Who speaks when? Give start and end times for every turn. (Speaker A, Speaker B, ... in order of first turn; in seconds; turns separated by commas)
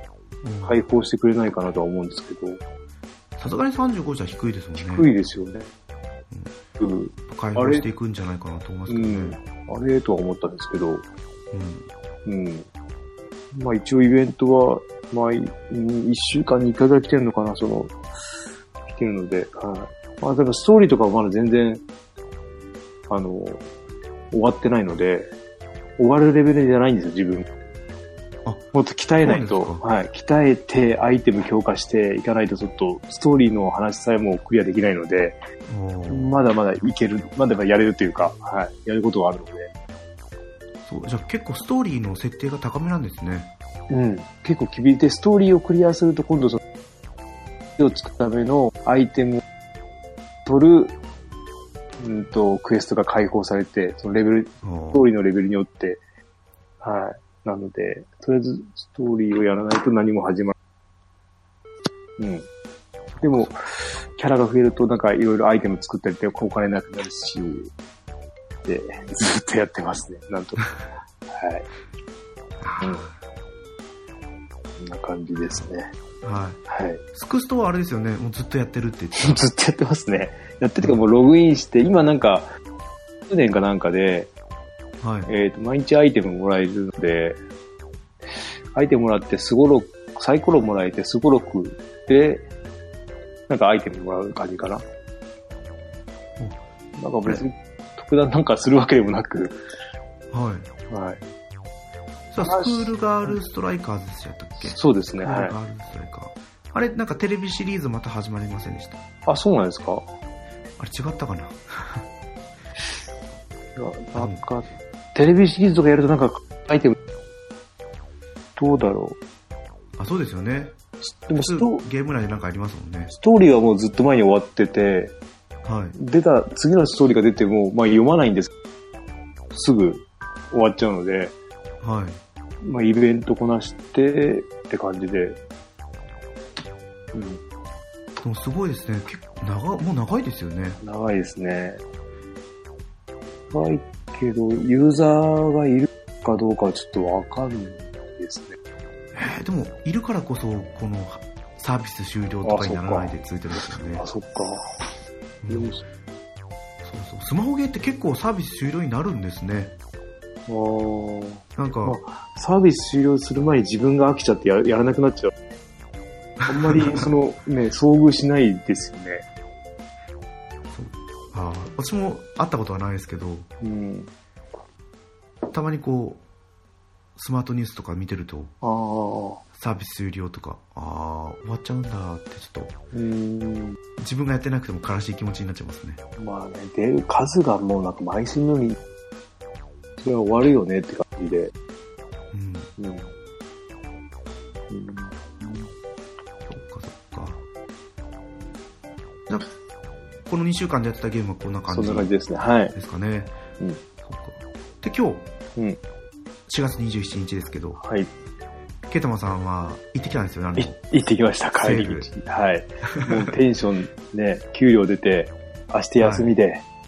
Speaker A: 0.4-0.9, Speaker B: 0.6-2.6, Speaker A: 3.4-5.1, Speaker B: 4.8-5.7, Speaker B: 6.8-7.9, Speaker A: 7.3-9.4, Speaker B: 8.9-11.1, Speaker A: 11.5-11.9, Speaker B: 12.3-12.7, Speaker B: 13.5-18.0, Speaker B: 18.9-21.8, Speaker B: 23.1-23.6, Speaker B: 24.3-25.3, Speaker B: 26.0-27.5, Speaker B: 28.7-35.4, Speaker A: 29.2-29.8, Speaker A: 35.7-36.5, Speaker B: 36.1-39.7, Speaker A: 40.8-43.5, Speaker B: 43.9-46.6, Speaker B: 47.8-49.4, Speaker B: 50.5-51.0, Speaker B: 52.0-56.0, Speaker A: 54.6-55.1, Speaker B: 56.8-60.5, Speaker B: 62.2-62.5, Speaker A: 63.1-63.5, Speaker B: 63.2-67.7, Speaker B: 68.7-70.7, Speaker B: 71.3-71.7, Speaker A: 72.6-73.2, Speaker B: 74.8-75.9, Speaker A: 76.2-76.6, Speaker B: 76.7-77.0, Speaker A: 77.1-79.4, Speaker B: 79.2-82.5, Speaker B: 83.3-84.3, Speaker A: 85.0-85.3, Speaker B: 85.3-87.4, Speaker B: 88.7-92.5, Speaker B: 93.5-94.8, Speaker B: 97.0-99.6, Speaker A: 100.3-100.7, Speaker B: 100.9-101.2, Speaker A: 102.3-109.0, Speaker B: 102.4-103.3, Speaker B: 104.6-105.6, Speaker B: 109.3-110.1, Speaker A: 110.8-112.1, Speaker B: 113.8-117.0, Speaker A: 114.2-114.4, Speaker B: 118.6-119.2, Speaker A: 120.0-120.8, Speaker B: 121.0-121.9, Speaker A: 121.3-123.1, Speaker B: 123.1-125.2, Speaker A: 125.6-126.0, Speaker B: 126.0-128.5, Speaker B: 129.5-131.3, Speaker A: 131.8-132.2, Speaker B: 132.6-135.4, Speaker B: 137.1-137.4, Speaker A: 138.2-140.8, Speaker B: 140.8-141.8, Speaker B: 143.5-148.6, Speaker A: 149.1-154.1, Speaker B: 152.4-153.2, Speaker B: 153.9-154.6, Speaker A: 155.4-155.7, Speaker B: 155.5-155.8, Speaker A: 156.8-159.8, Speaker B: 160.5-165.3, Speaker A: 161.6-162.0, Speaker A: 166.4-167.1, Speaker B: 166.5-169.2, Speaker A: 170.7-173.5, Speaker B: 173.6-174.1, Speaker A: 175.5-176.2, Speaker A: 177.2-178.5, Speaker B: 178.6-179.4, Speaker A: 179.5-182.8, Speaker B: 182.9-183.8, Speaker A: 184.0-186.0, Speaker B: 186.2-188.8, Speaker B: 190.0-191.5, Speaker A: 192.3-192.7, Speaker B: 192.8-193.1, Speaker B: 194.7-195.7, Speaker A: 196.5-197.4, Speaker A: 200.3-202.1, Speaker B: 201.7-202.8, Speaker A: 202.7-203.4, Speaker A: 204.0-205.3, Speaker A: 206.5-207.8, Speaker B: 207.8-208.1, Speaker A: 208.9-210.8, Speaker B: 210.6-216.7, Speaker A: 211.6-212.1, Speaker A: 216.0-216.3